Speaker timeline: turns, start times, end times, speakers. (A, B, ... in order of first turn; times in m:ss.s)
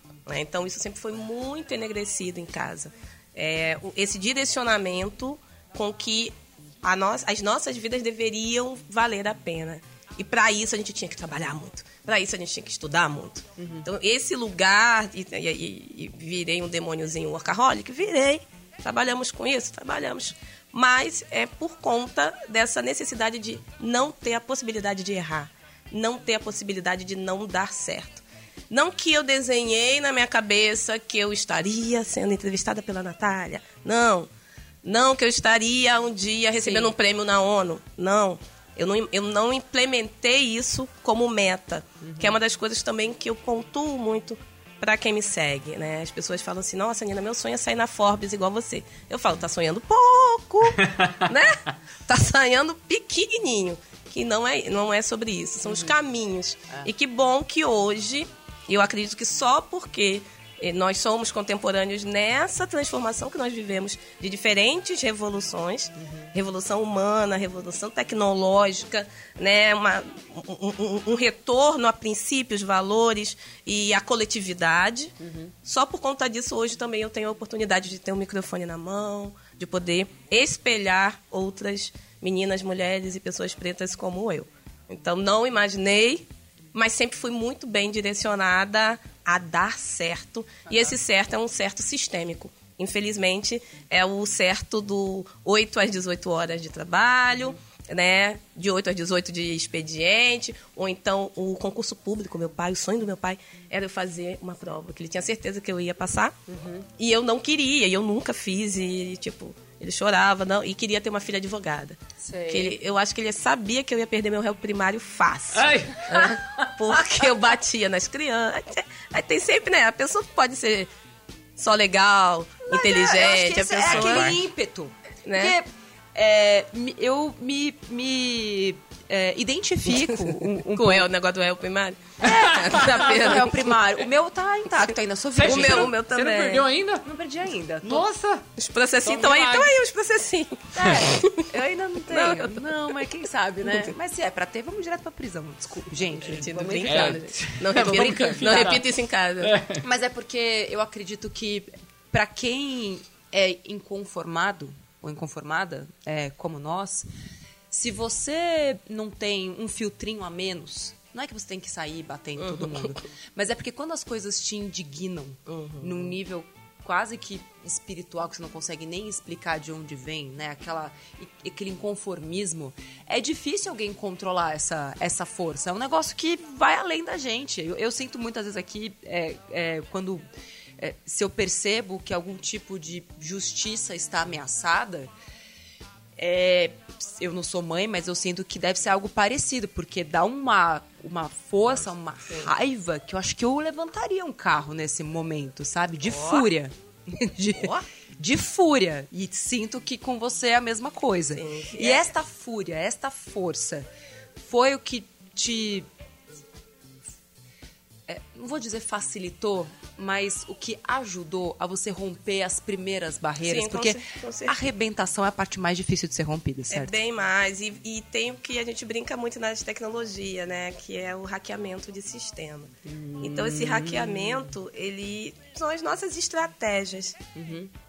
0:00.2-0:34.3 A
0:13.6-0:13.9 B
0:34.8-1:46.4 A
0:36.6-0:36.9 B
0:42.0-0:42.3 B
1:06.0-1:06.3 B
1:15.2-1:15.5 B
1:46.5-1:46.8 B
1:46.9-2:00.9 A
1:52.2-1:52.8 B
1:55.5-1:56.7 C
2:01.6-2:04.4 A
2:02.6-2:11.1 B
2:03.9-2:04.4 C
2:05.2-2:05.6 A
2:09.9-2:13.7 A
2:12.2-2:13.2 C
2:12.2-2:15.9 B
2:15.4-2:17.0 C
2:15.4-2:16.7 A
2:17.0-2:18.1 B
2:17.8-2:18.4 C
2:18.6-2:21.5 A
2:19.0-2:19.7 C
2:20.7-2:28.8 B
2:22.1-2:22.8 A
2:23.6-2:23.9 A
2:26.2-2:29.6 A
2:26.8-2:28.8 C
2:29.4-2:29.8 C
2:29.8-2:37.1 B
2:37.7-3:00.2 B
2:42.4-2:43.0 A
2:45.5-2:46.2 A
3:00.8-3:05.1 B
3:06.2-3:23.9 B
3:16.0-3:16.5 A
3:17.6-3:17.8 A
3:21.3-3:22.1 A
3:24.4-3:25.9 B
3:28.1-3:37.0 B
3:33.4-3:34.6 A
3:36.7-3:47.2 A
3:42.8-3:44.5 B
3:47.3-3:47.7 B